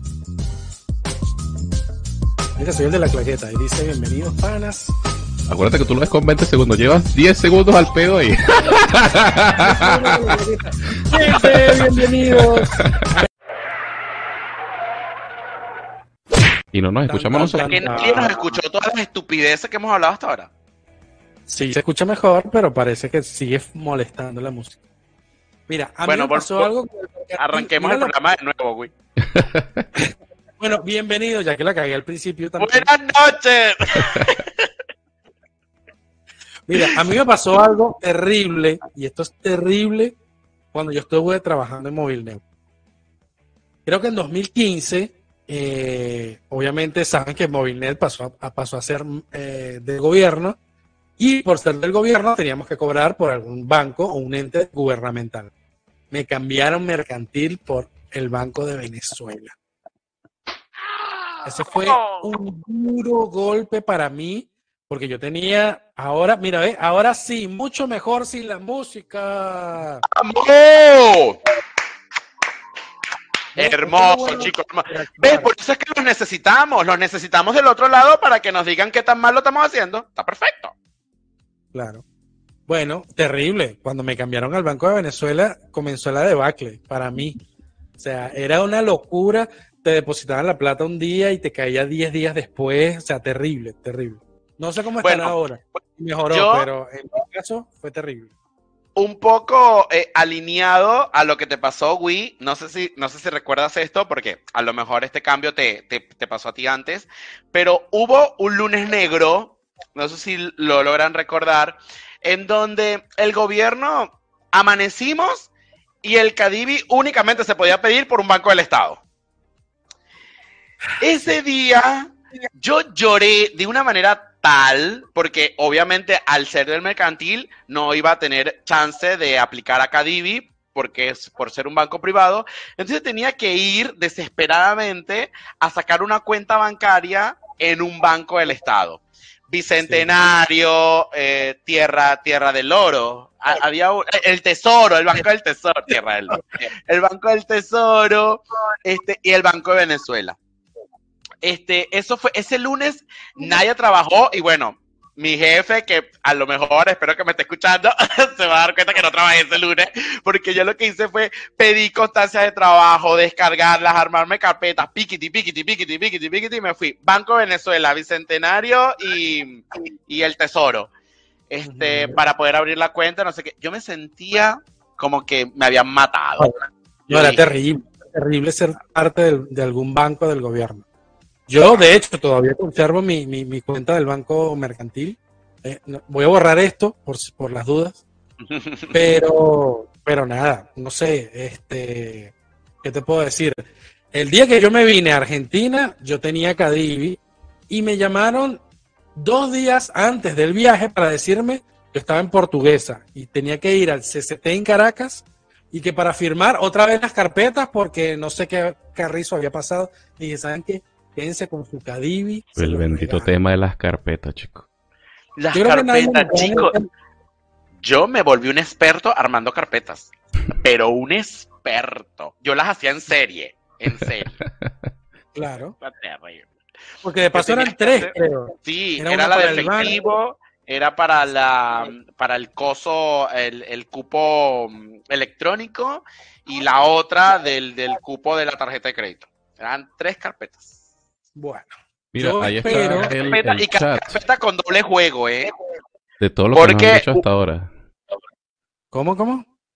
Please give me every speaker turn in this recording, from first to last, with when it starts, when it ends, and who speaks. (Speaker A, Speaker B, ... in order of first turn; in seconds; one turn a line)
Speaker A: 2.6-4.9
Speaker B: 5.5-10.4
Speaker A: 9.5-13.3
Speaker B: 10.9-13.1
Speaker B: 16.7-17.9
Speaker A: 17.1-18.3
Speaker C: 17.6-20.5
Speaker A: 21.5-24.8
Speaker A: 25.7-28.1
Speaker C: 26.1-26.7
Speaker C: 27.4-28.9
Speaker B: 29.2-29.9
Speaker A: 30.0-32.9
Speaker C: 32.6-34.7
Speaker A: 36.7-40.2
Speaker A: 40.7-42.4
Speaker A: 43.9-50.6
Speaker A: 51.2-55.5
Speaker A: 56.1-59.5
Speaker C: 61.4-62.3
Speaker A: 61.5-70.0
Speaker C: 70.1-71.4
Speaker C: 73.5-80.7
Speaker A: 73.6-75.5
Speaker A: 81.7-82.0
Speaker A: 82.7-87.4
Speaker A: 88.0-98.3
Speaker C: 95.0-95.8
Speaker C: 96.3-96.7
Speaker C: 99.0-115.5
Speaker C: 116.0-119.0
Speaker C: 121.0-150.4
Speaker A: 139.8-140.1
Speaker C: 151.4-170.9
Speaker C: 171.5-176.5
Speaker A: 171.7-172.2
Speaker A: 176.4-180.9
Speaker C: 177.1-177.6
Speaker A: 181.5-188.0
Speaker C: 188.5-189.0
Speaker A: 188.9-198.6
Speaker A: 199.2-213.3
Speaker B: 212.6-214.7
Speaker C: 215.4-216.8
Speaker A: 215.5-216.9
Speaker C: 217.8-224.3
Speaker B: 223.9-224.9
Speaker A: 225.3-225.8
Speaker C: 225.8-226.5
Speaker A: 227.0-229.9
Speaker C: 227.3-228.1
Speaker C: 228.7-240.8
Speaker A: 241.4-243.1
Speaker B: 242.1-244.2
Speaker C: 242.7-245.6
Speaker B: 246.2-247.7
Speaker C: 246.5-247.2
Speaker A: 248.9-249.4